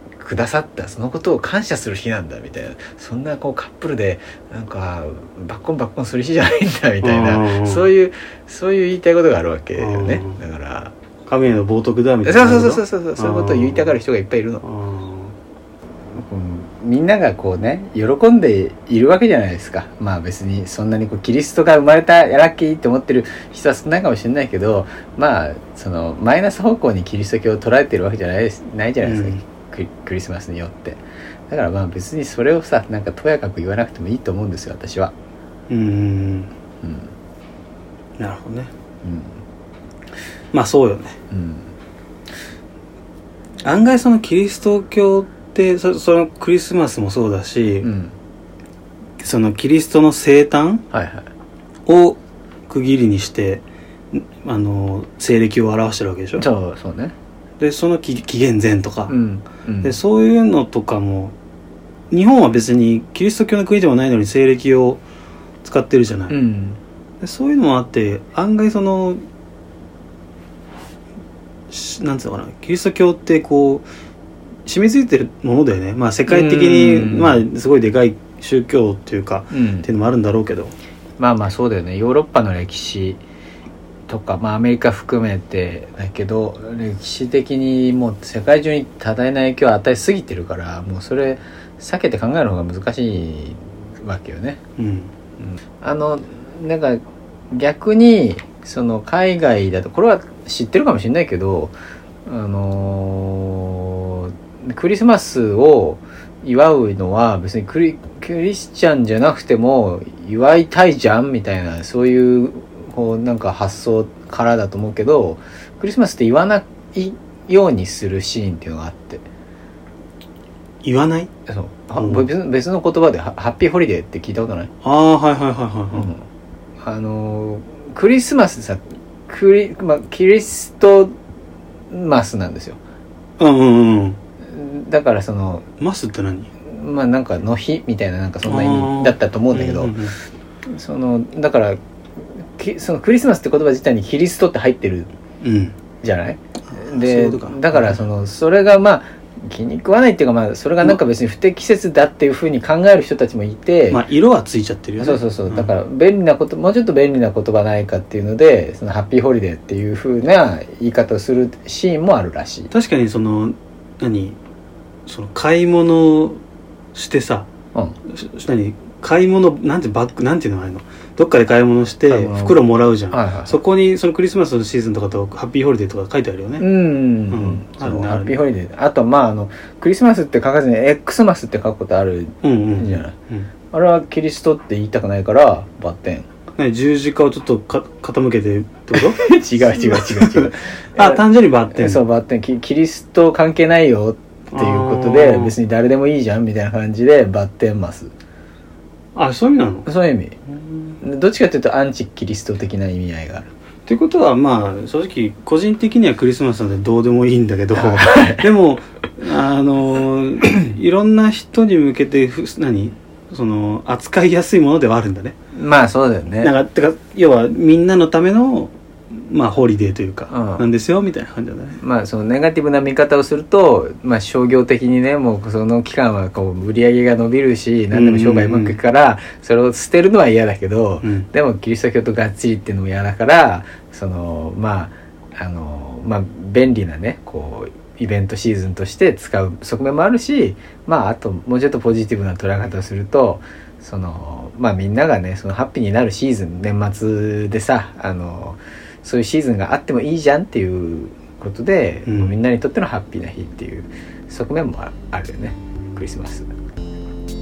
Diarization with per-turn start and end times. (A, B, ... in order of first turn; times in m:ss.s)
0:00.2-0:10.9 A
0:07.0-0:07.9 B
0:09.8-0:10.4 B
0:11.2-0:14.0 B
0:12.2-0:14.6 A
0:14.6-0:15.4 B
0:16.1-0:35.1 A
0:29.0-0:29.4 B
0:35.7-0:36.5 B
0:36.8-0:37.1 A
0:38.2-0:38.7 B
0:39.0-0:39.4 A
0:40.5-0:41.2 B
0:41.3-0:41.7 A
0:43.6-0:47.9 B
0:47.8-0:48.1 A
0:49.2-0:50.8 B
0:50.9-0:51.3 A
0:51.8-0:56.4 B
0:56.4-0:57.1 A
0:57.6-0:59.1 B
0:59.1-0:59.9 A
0:59.8-1:01.3 B
1:02.1-1:05.0 B
1:05.6-1:06.4 B
1:06.3-1:06.8 A
1:07.2-1:09.2 B
1:11.7-1:13.8 B
1:14.6-1:20.8 B
1:16.3-1:17.4 A
1:19.5-1:19.9 A
1:21.2-1:23.2 A
1:24.1-1:34.6 A
1:34.8-1:35.1 B
1:35.4-1:41.7 A
1:42.2-1:59.2 A
2:00.8-2:01.3 B
2:01.5-2:04.7 A
2:02.0-2:02.3 B
2:04.8-2:06.1 B
2:05.9-2:06.2 A
2:06.8-2:11.1 A
2:11.9-2:12.8 A
2:13.4-2:14.2 B
2:14.4-2:15.6 A
2:15.8-2:16.5 B
2:16.6-2:20.0 A
2:18.4-2:20.2 B
2:20.6-2:25.1 A
2:25.4-2:25.8 B
2:26.0-2:34.0 A
2:26.7-2:28.0 B
2:33.9-2:35.8 B
2:35.0-2:42.7 A
2:42.7-2:44.4 B
2:45.0-2:46.4 B
2:46.9-2:47.5 B
2:48.0-2:56.7 B
2:52.1-2:53.6 A
2:56.6-3:03.1 A
2:57.3-2:58.4 B
3:02.4-3:03.5 B
3:03.7-3:06.3 A
3:06.6-3:12.0 B
3:09.0-3:18.1 A
3:14.5-3:15.6 B
3:19.1-3:19.9 B
3:19.8-3:20.4 A
3:20.5-3:21.0 B
3:21.0-3:23.5 A
3:23.8-3:35.4 B
3:27.8-3:28.5 A
3:35.5-3:36.5 A
3:36.4-3:41.8 B
3:40.3-3:40.7 A
3:41.8-4:16.5 A
3:47.9-3:48.8 B
3:51.0-3:51.3 B
4:12.0-4:12.4 B